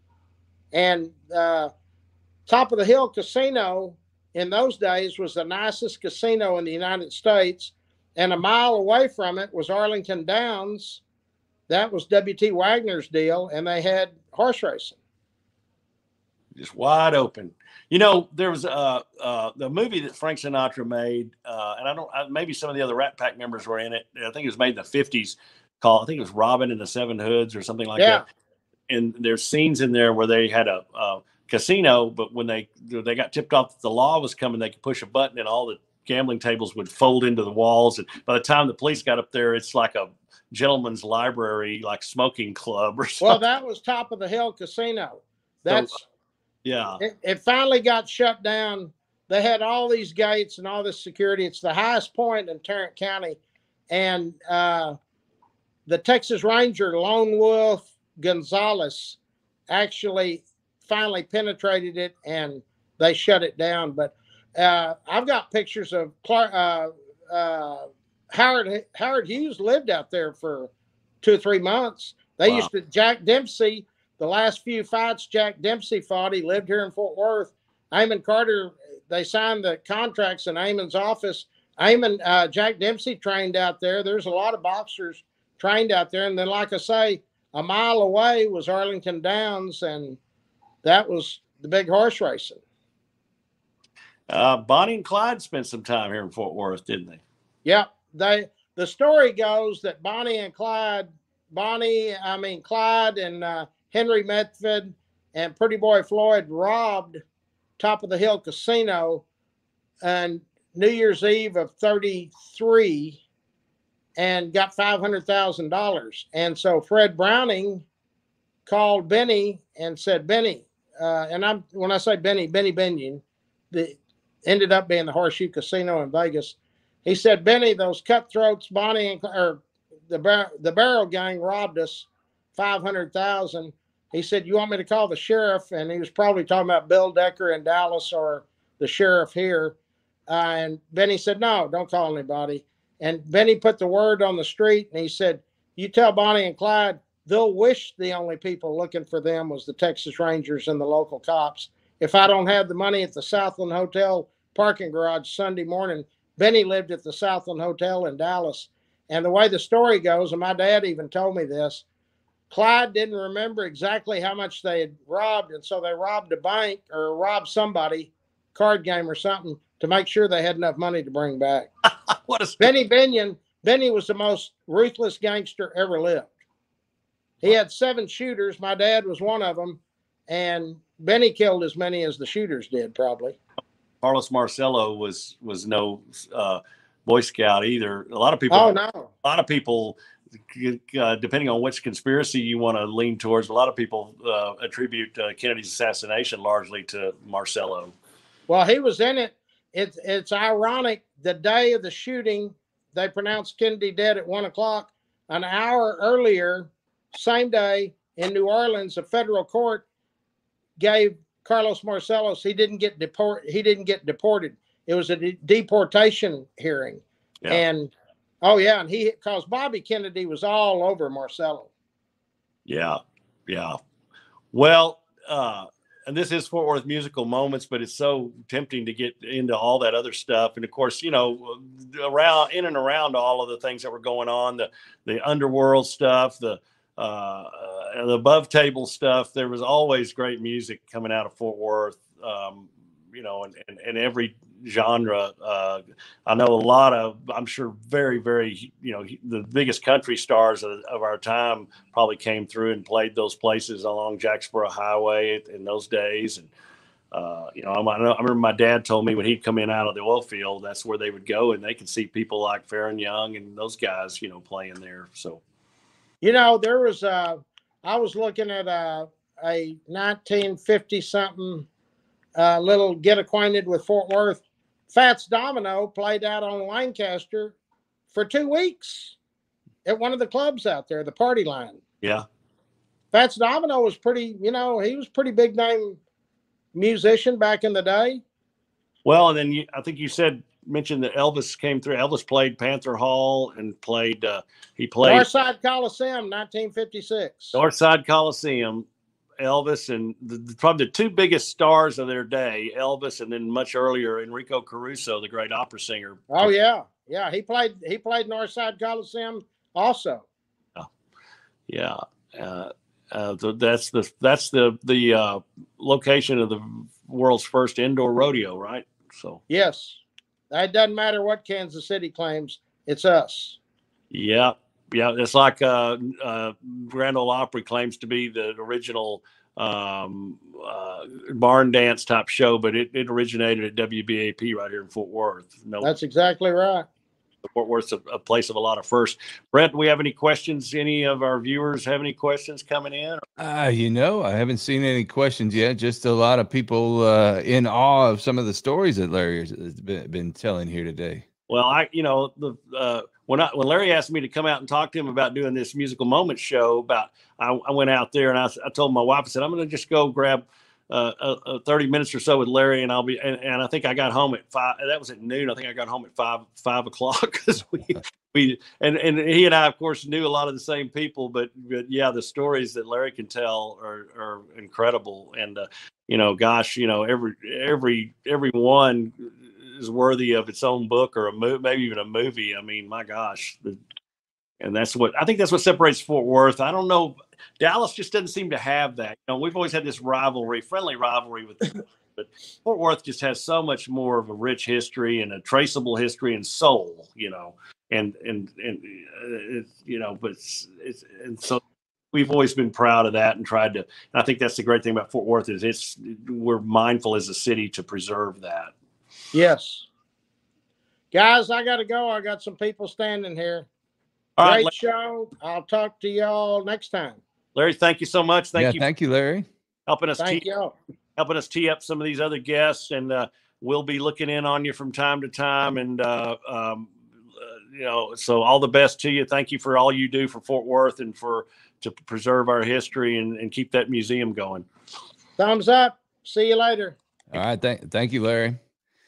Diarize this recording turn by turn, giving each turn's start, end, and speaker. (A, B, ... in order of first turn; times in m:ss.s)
0:00.7-0:01.7 A
0:02.5-0:11.0 A
0:11.7-0:15.0 A
0:16.6-0:28.2 B
0:28.0-0:28.2 A
0:28.9-0:43.4 B
0:43.2-0:46.0 A
0:46.6-0:47.0 B
0:47.0-0:53.4 A
0:53.9-0:55.0 A
0:55.9-0:59.2 A
0:59.7-1:10.7 A
1:11.2-1:30.2 A
1:30.8-1:32.6 A
1:34.3-1:37.2 B
1:37.6-1:47.2 A
1:47.8-1:49.2 A
1:50.0-1:53.2 A
1:54.2-1:57.8 A
1:58.7-2:19.8 A
2:20.3-2:41.8 A
2:42.5-2:51.7 A
2:52.3-2:52.7 B
2:52.6-2:56.3 A
2:57.4-3:03.4 A
3:04.0-3:10.0 B
3:08.5-3:09.1 A
3:10.5-3:17.9 B
3:18.5-3:29.8 A
3:30.8-3:41.7 A
3:42.7-3:43.8 B
3:44.5-4:16.5 B
4:17.1-4:25.4 B
4:26.2-4:31.7 A
4:32.4-4:37.6 A
4:38.1-4:39.2 A
4:39.8-4:41.8 A
4:43.1-4:46.0 A
4:46.8-4:48.2 A
4:49.0-4:55.3 B
4:55.0-4:57.6 A
4:57.6-4:58.9 B
4:59.4-5:06.5 B
5:06.3-5:10.2 A
5:11.7-5:19.4 B
5:19.5-5:23.6 A
5:24.1-5:35.9 B
5:35.8-5:36.9 A
5:37.4-5:43.2 B
5:43.4-5:51.2 C
5:51.5-6:23.8 B
6:24.6-6:41.6 B
6:42.1-6:48.7 B
6:49.3-6:49.9 A
6:51.1-6:53.7 A
6:54.4-6:54.7 B
6:54.4-6:57.2 A
6:57.6-6:58.8 B
6:58.6-6:59.5 C
6:59.9-7:00.4 B
7:00.2-7:00.7 A
7:01.2-7:14.7 B
7:15.4-7:17.0 A
7:17.3-7:18.6 C